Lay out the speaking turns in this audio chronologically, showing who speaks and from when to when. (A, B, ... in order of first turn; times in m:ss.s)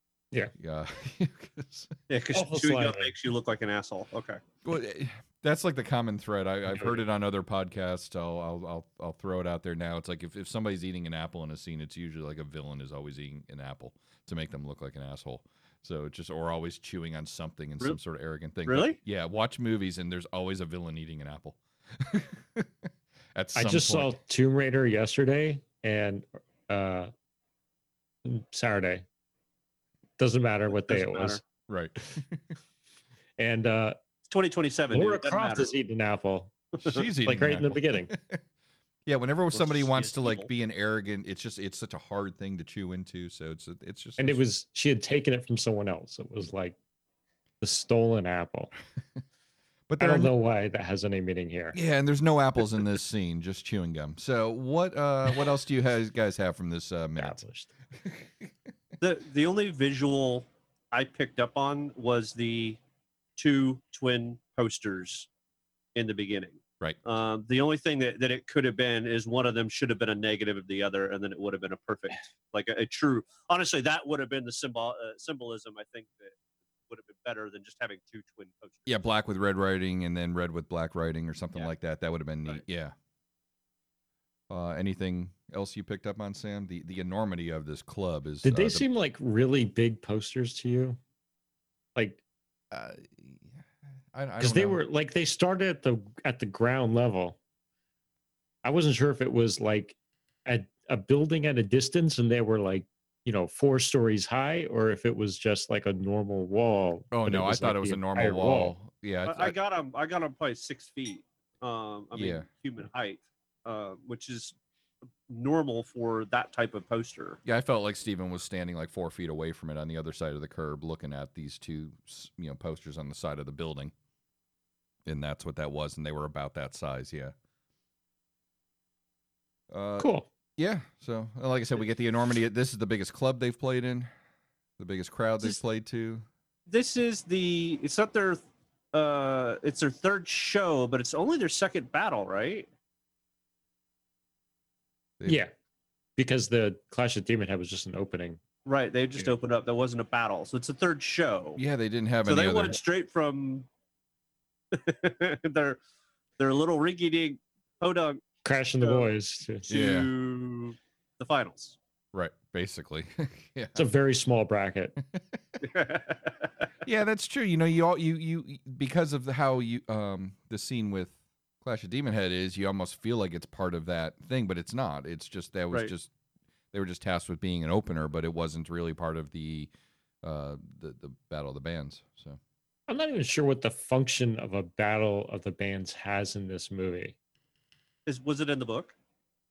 0:00.6-0:01.9 A
0:02.1-0:04.4 B
0:02.3-0:03.1 C
0:04.6-0:22.7 A
0:06.7-0:07.0 C
0:18.7-0:19.0 B
0:23.4-0:24.2 A
0:23.6-0:27.1 C
0:28.2-0:29.0 C
0:30.2-0:31.4 C
0:30.7-0:31.4 B
0:31.7-0:32.4 A
0:33.4-0:34.0 C
0:34.3-0:35.7 B
0:34.9-0:36.6 C
0:36.8-0:38.4 A
0:37.3-0:38.1 C
0:39.1-0:44.4 A
0:39.5-0:40.5 B
0:44.2-0:46.8 C
0:47.6-0:48.7 C
0:49.9-0:50.3 A
0:50.0-0:51.8 C
0:51.7-0:57.4 A
0:57.2-0:57.7 C
0:59.0-1:02.8 B
1:03.4-1:05.3 B
1:06.0-1:16.4 B
1:16.9-1:18.9 B
1:18.9-1:22.9 A
1:24.5-1:28.9 A
1:28.4-1:31.0 C
1:32.0-1:32.2 C
1:32.7-1:34.8 A
1:34.4-1:37.4 C
1:38.6-1:48.8 C
1:47.1-1:49.5 A
1:49.2-1:54.6 B
1:52.1-1:52.5 A
1:55.3-1:57.4 B
1:57.4-2:03.9 A
2:05.1-2:07.3 A
2:09.7-2:14.1 A
2:10.0-2:10.3 C
2:14.8-2:16.2 A
2:16.7-2:18.4 B
2:18.9-2:22.7 B
2:25.3-2:25.5 C
2:26.2-2:28.4 C
2:28.6-2:31.6 B
2:31.6-2:32.8 A
2:32.2-2:33.7 B
2:34.7-2:35.8 B
2:36.4-2:38.2 B
2:38.4-2:39.7 C
2:38.8-2:39.1 B
2:39.7-2:41.8 B
2:39.7-2:40.1 A
2:42.1-2:43.9 A
2:43.8-2:45.0 C
2:45.6-2:46.5 B
2:46.8-2:56.1 A
2:56.7-2:59.7 A
3:00.2-3:02.4 A
3:02.9-3:07.2 C
3:08.1-3:08.9 B